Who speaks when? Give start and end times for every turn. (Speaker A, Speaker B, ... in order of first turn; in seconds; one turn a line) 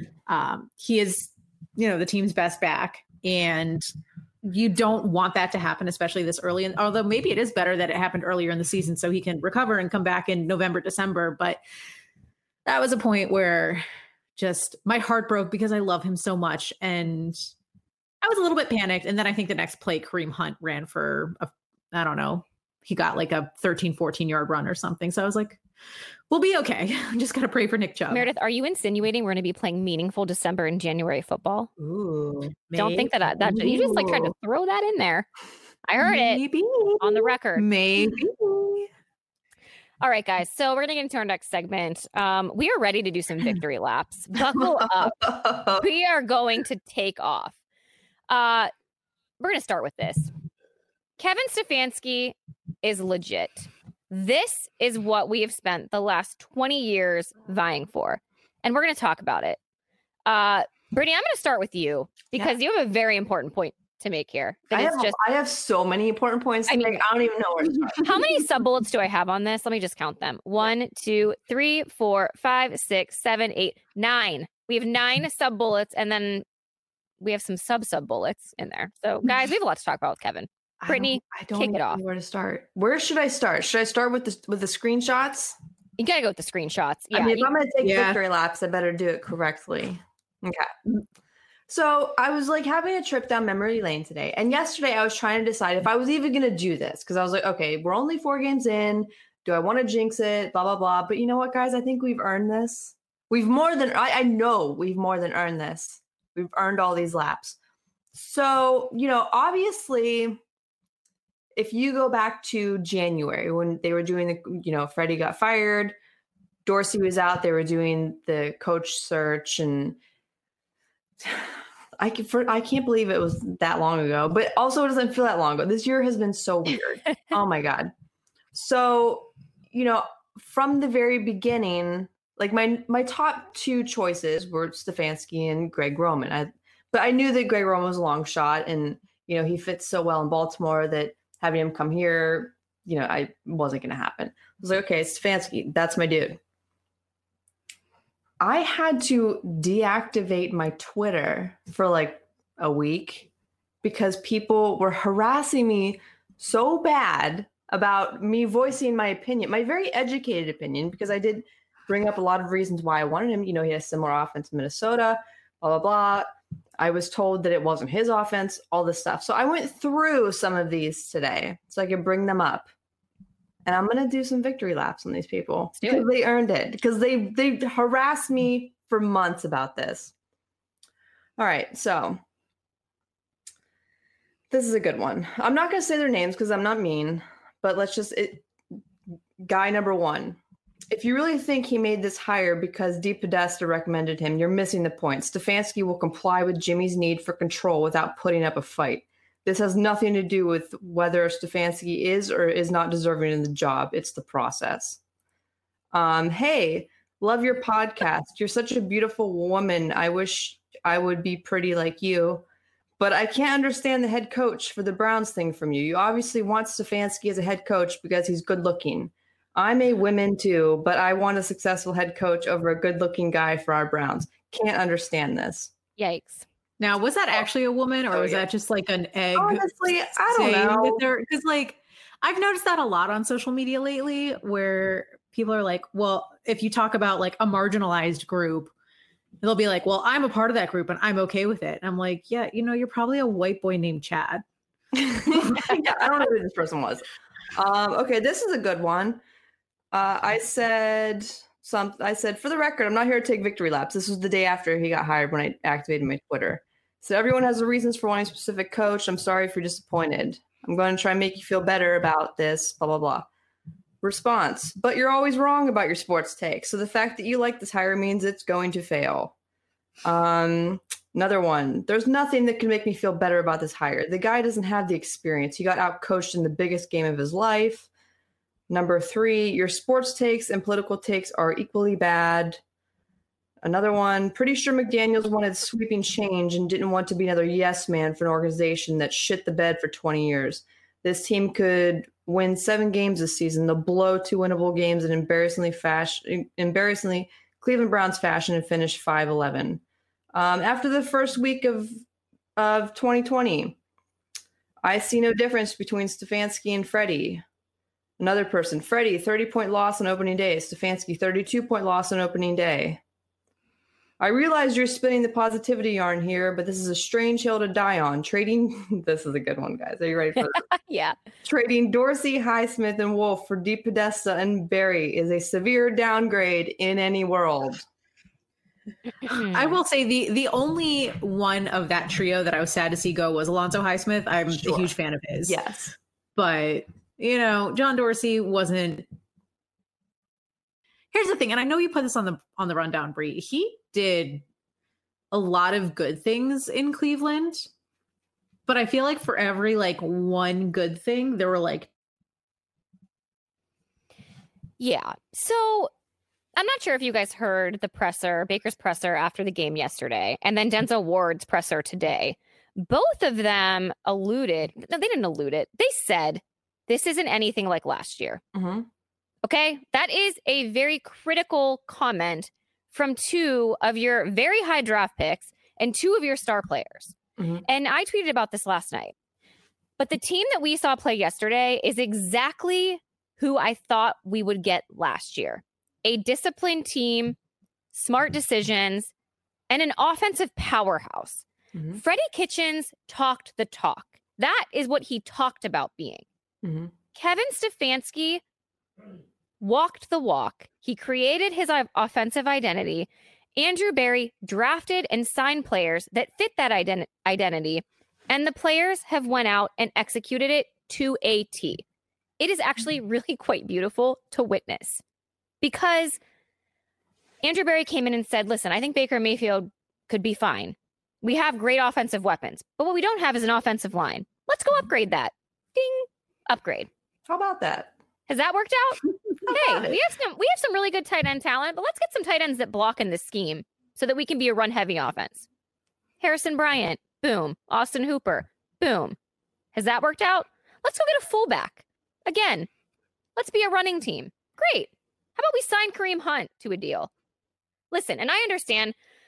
Speaker A: 0.3-3.9
Speaker A: 4.4-11.6
Speaker A: 12.7-13.8
Speaker A: 14.4-17.4
Speaker A: 18.2-25.6
Speaker A: 26.3-28.3
Speaker B: 28.1-31.7
Speaker C: 31.8-32.5
Speaker A: 32.7-34.3
Speaker B: 32.7-35.3
Speaker B: 35.8-36.4
Speaker A: 36.0-38.9
Speaker B: 37.0-37.6
Speaker B: 40.0-45.2
Speaker C: 44.4-45.9
Speaker B: 45.8-47.5
Speaker B: 48.3-48.7
Speaker B: 49.4-50.3
Speaker B: 51.2-59.6
Speaker B: 60.2-65.2
Speaker C: 64.7-68.1
Speaker B: 66.7-67.0
Speaker B: 68.0-76.4
Speaker B: 77.2-82.0
Speaker C: 80.8-85.6
Speaker B: 86.0-87.5
Speaker C: 87.1-90.8
Speaker A: 87.8-88.2
Speaker C: 91.7-107.6
Speaker C: 108.1-110.4
Speaker C: 111.5-115.9
Speaker C: 116.7-120.0
Speaker C: 121.2-127.9
Speaker C: 128.5-146.4
Speaker C: 148.4-153.3
Speaker C: 153.8-172.7
Speaker C: 173.7-180.1
Speaker C: 181.4-182.2
Speaker C: 184.5-188.5
Speaker C: 189.4-190.4
Speaker C: 190.9-205.0
Speaker C: 205.9-212.4
Speaker C: 213.0-225.7
Speaker B: 226.0-226.4
Speaker A: 226.8-238.7
Speaker C: 228.1-228.4
Speaker C: 229.3-231.0
Speaker A: 239.4-244.4
Speaker C: 244.9-249.2
Speaker C: 249.9-263.3
Speaker C: 264.0-269.3
Speaker C: 270.0-277.9
Speaker C: 278.7-282.6
Speaker C: 283.6-299.8
Speaker C: 300.3-302.0
Speaker C: 302.6-303.8
Speaker C: 304.8-307.4
Speaker C: 308.2-313.0
Speaker C: 314.2-320.6
Speaker B: 320.6-321.2
Speaker C: 321.4-327.8
Speaker B: 329.2-329.8
Speaker A: 329.3-335.6
Speaker C: 334.5-334.9
Speaker C: 335.4-335.9
Speaker A: 336.4-339.0
Speaker A: 341.1-344.4
Speaker A: 345.3-347.7
Speaker A: 348.7-351.9
Speaker B: 354.8-355.9
Speaker B: 356.6-368.4
Speaker C: 368.5-368.9
Speaker B: 369.4-379.1
Speaker C: 377.4-377.6
Speaker B: 380.0-387.4
Speaker B: 387.9-389.1
Speaker B: 389.7-391.4
Speaker C: 391.7-392.0
Speaker B: 391.9-396.2
Speaker C: 396.6-396.9
Speaker B: 397.1-398.4
Speaker B: 399.6-411.8
Speaker B: 412.4-415.0
Speaker B: 415.6-416.2
Speaker B: 417.4-426.9
Speaker C: 427.3-427.9
Speaker B: 428.3-435.4
Speaker C: 429.5-429.9
Speaker B: 436.2-439.1
Speaker B: 439.7-442.7
Speaker B: 443.4-447.1
Speaker B: 447.9-448.9